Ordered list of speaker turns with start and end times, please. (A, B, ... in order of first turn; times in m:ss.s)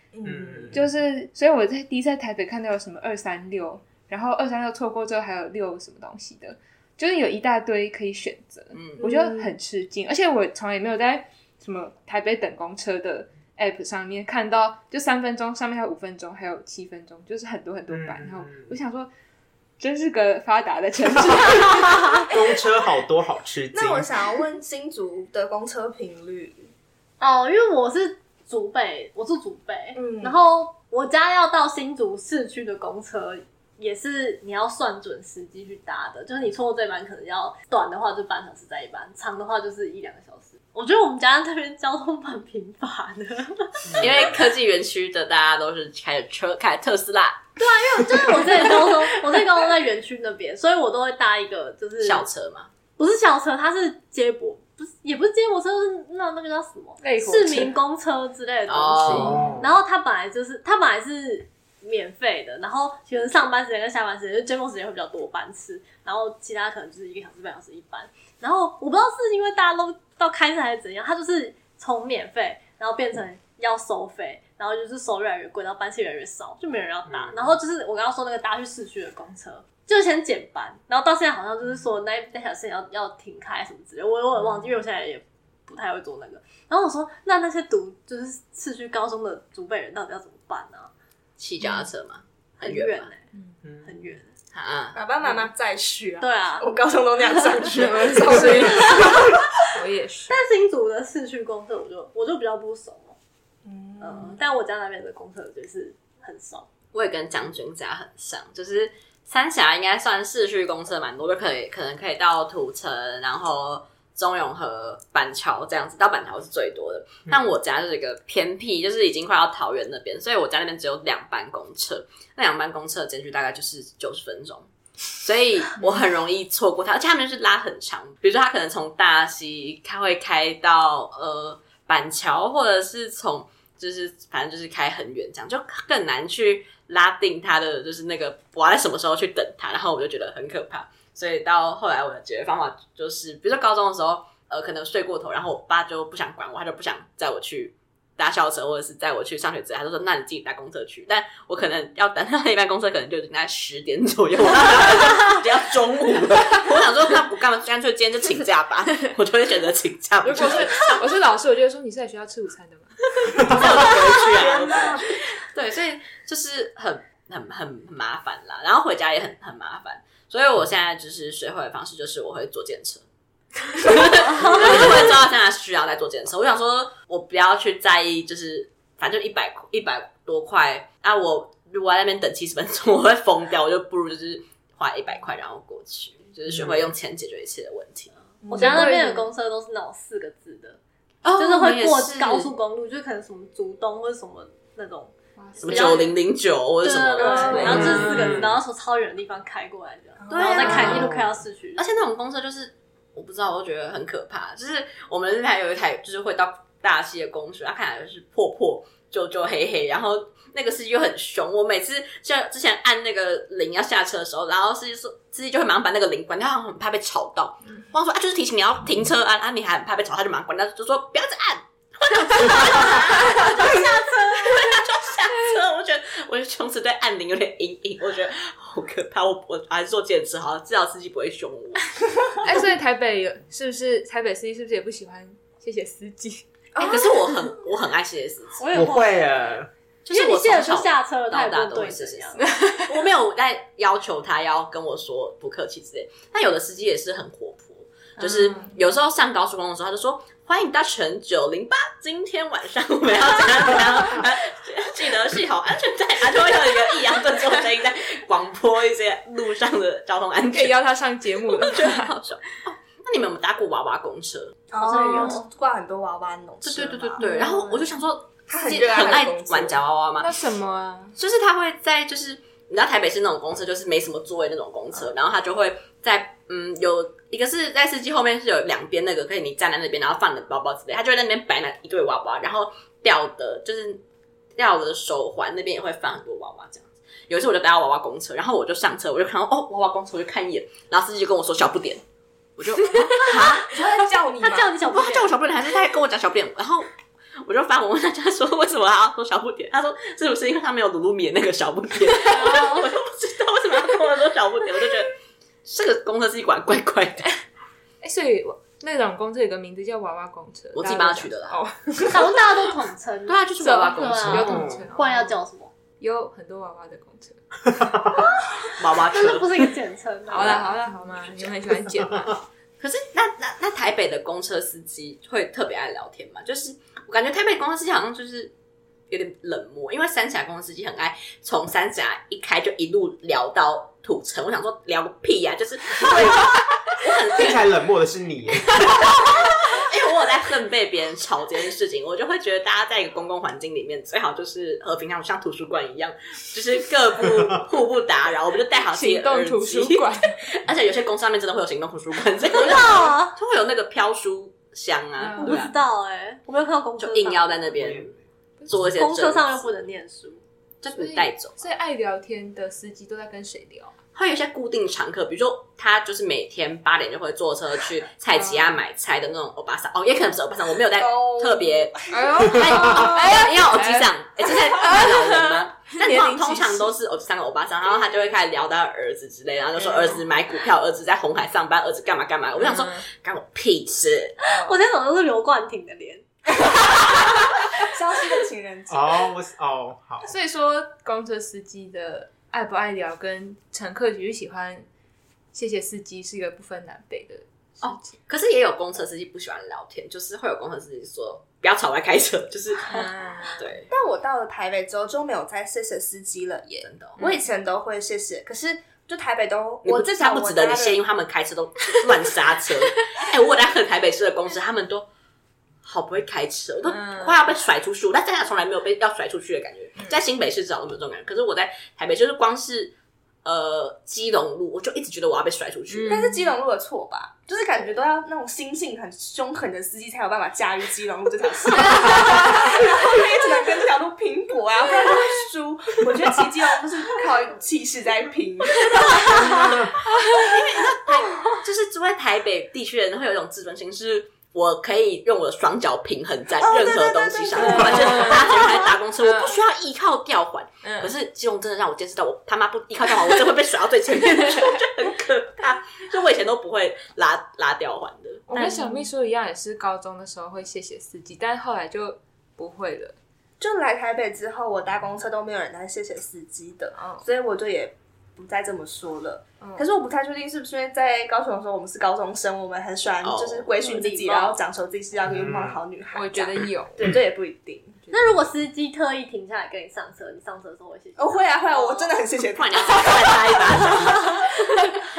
0:00.1-0:00.8 A
0:00.2-0:00.9 B
0:00.7-0:19.1 C
0:08.7-0:09.0 D
0:09.0-0:09.5 A
0:17.9-0:18.8 B
0:19.8-0:22.2 C
0:22.3-0:24.1 B
0:23.7-0:26.7 A
0:27.2-0:44.3 E
0:29.9-0:30.4 A
0:43.9-0:44.2 B
0:44.0-0:47.6 D
0:47.6-0:52.2 E
0:48.3-0:48.8 D
0:52.0-0:52.7 D
0:53.0-1:30.9 E
0:57.0-0:57.7 C
0:58.7-0:59.4 D
0:59.1-0:59.7 B
1:17.1-1:17.6 B
1:31.4-1:33.1 D
1:31.6-1:31.9 C
1:32.6-1:33.3 E
1:33.6-1:34.0 B
1:33.8-1:34.3 E
1:34.5-1:35.0 D
1:34.9-1:39.4 A
1:36.2-1:36.7 E
1:37.7-1:40.4 C
1:38.3-1:39.4 E
1:40.3-1:43.2 E
1:43.6-1:44.4 A
1:44.0-1:46.6 E
1:46.9-2:41.0 D
2:40.2-2:43.0 C
2:43.2-2:53.0 D
2:44.4-2:44.9 B
2:44.4-2:45.0 A
2:53.7-3:08.1 D
2:54.2-2:55.1 E
3:06.5-3:06.8 B
3:08.4-3:08.9 A
3:08.5-3:10.8 E
3:08.5-3:09.3 C
3:11.2-3:12.5 D
3:11.4-3:16.2 E
3:15.4-3:16.1 C
3:15.6-3:18.4 D
3:16.8-3:21.8 E
3:17.2-3:18.1 A
3:17.6-3:18.6 B
3:20.2-3:21.0 A
3:20.3-3:21.1 D
3:20.6-3:21.0 C
3:20.9-3:21.4 B
3:21.8-3:51.9 D
3:52.4-3:56.5 C
3:56.7-3:57.4 A
3:56.8-3:58.6 D
3:58.6-3:59.6 E
3:58.7-3:59.7 B
4:00.0-4:20.8 D
4:00.1-4:02.5 E
4:02.4-4:02.9 C
4:08.2-4:08.7 C
4:20.5-4:22.1 C
4:21.4-4:24.6 D
4:24.7-4:27.2 A
4:24.7-4:25.5 E
4:25.1-4:25.4 C
4:26.6-4:30.3 D
4:27.2-4:27.9 C
4:28.5-4:29.8 A
4:30.2-4:31.2 C
4:31.2-4:44.0 D
4:44.6-4:52.0 D
4:52.6-4:53.9 D
4:53.3-4:54.8 A
4:54.3-4:55.4 E
4:54.8-4:56.9 D
4:57.4-5:05.1 D
5:02.2-5:02.9 E
5:02.4-5:02.8 C
5:05.6-5:07.3 D
5:08.0-5:12.4 C
5:10.7-5:11.6 D
5:12.1-5:15.7 E
5:13.3-5:14.7 D
5:13.6-5:15.4 C
5:14.3-5:14.9 B
5:16.0-5:17.4 C
5:17.7-5:18.2 B
5:18.1-5:20.7 E
5:18.7-5:19.7 D
5:20.3-5:22.4 C
5:20.4-5:20.6 D
5:22.8-5:28.5 D
5:29.1-5:37.7 D
5:37.3-5:39.2 B
5:38.7-5:55.7 D
5:47.3-5:47.6 B
5:48.8-5:50.4 C
5:52.5-5:53.3 E
5:55.2-5:55.7 C
5:55.4-5:57.7 E
5:57.0-5:58.1 D
5:57.8-5:58.2 B
5:58.7-5:59.7 D
5:58.8-6:00.4 E
6:00.8-6:01.7 D
6:00.9-6:03.9 C
6:04.1-6:24.4 D
6:08.3-6:08.8 C
6:11.0-6:12.2 A
6:12.1-6:16.9 C
6:19.8-6:20.2 C
6:22.6-6:23.0 C
6:24.4-6:27.7 E
6:24.4-6:24.8 C
6:27.8-6:29.3 A
6:28.9-6:30.3 B
6:30.2-6:34.9 C
6:35.5-6:38.1 C
6:37.8-6:43.9 D
6:42.9-6:43.8 C
6:43.9-6:51.0 A
6:46.8-6:47.2 D
6:47.2-6:47.4 C
6:49.8-6:55.1 D
6:55.8-7:02.9 D
6:56.8-6:57.4 C
7:03.4-7:06.2 D
7:05.9-7:06.6 C
7:06.1-7:19.8 A
7:11.8-7:12.8 C
7:19.2-7:20.6 C
7:20.3-7:38.7 D
7:26.6-7:28.8 A
7:27.6-7:29.6 C
7:30.8-7:31.1 C
7:38.5-7:43.2 C
7:43.6-7:58.0 A
7:46.9-7:47.2 C
7:53.2-7:54.5 D
7:53.9-7:54.6 E
7:55.2-7:55.8 B
7:56.1-7:57.1 C
7:58.1-7:58.5 C
7:58.1-8:02.2 E
8:01.2-8:04.0 A
8:02.5-8:04.6 D
8:03.8-8:04.5 E